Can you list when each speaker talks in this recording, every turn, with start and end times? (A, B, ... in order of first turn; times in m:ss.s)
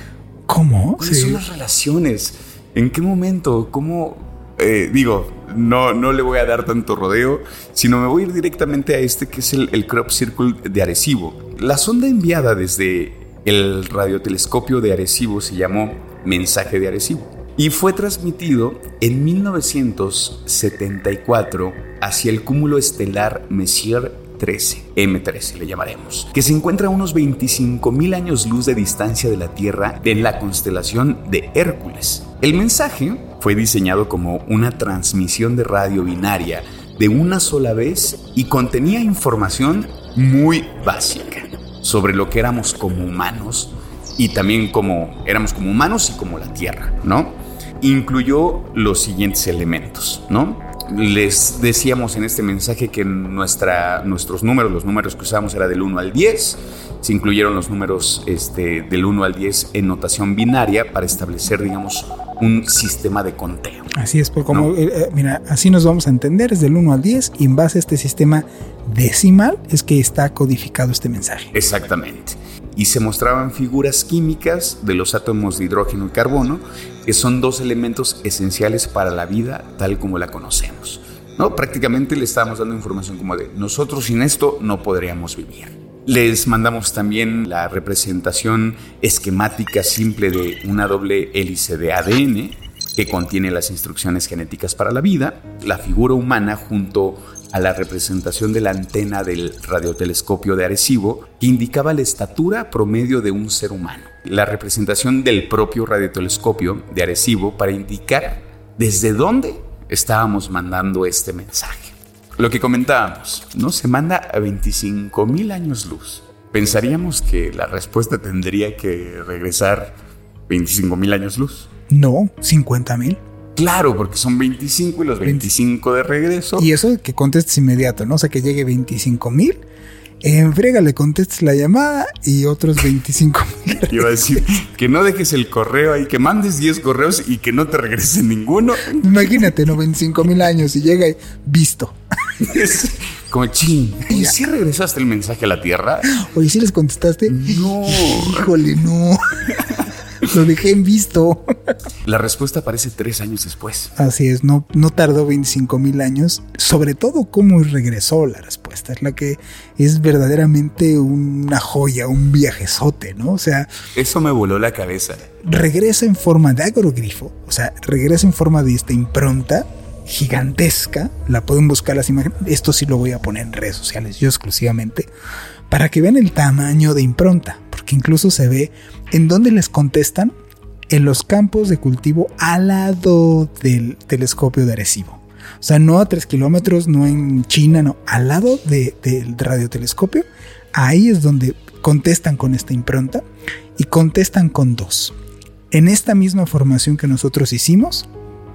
0:00.5-0:01.4 A
0:01.0-1:03.9 B
1:04.0-1:11.5 A
1:11.5-2:00.0 B
2:00.5-2:01.7 B
2:01.9-2:03.2 A
2:03.6-2:06.7 B
2:05.2-2:05.5 A
2:06.6-2:09.6 A
2:10.2-2:14.5 A
2:13.9-2:19.6 B
2:19.0-2:22.0 A
2:22.4-2:26.2 B
2:24.1-2:24.4 A
2:26.1-2:31.7 A
2:27.3-2:28.6 B
2:29.6-2:29.8 B
2:32.0-2:33.9 B
2:34.0-2:43.7 A
2:44.0-2:45.3 B
2:45.4-2:55.1 A
2:55.7-3:00.3 A
3:00.9-3:13.2 A
3:13.8-3:15.2 A
3:15.7-3:18.1 A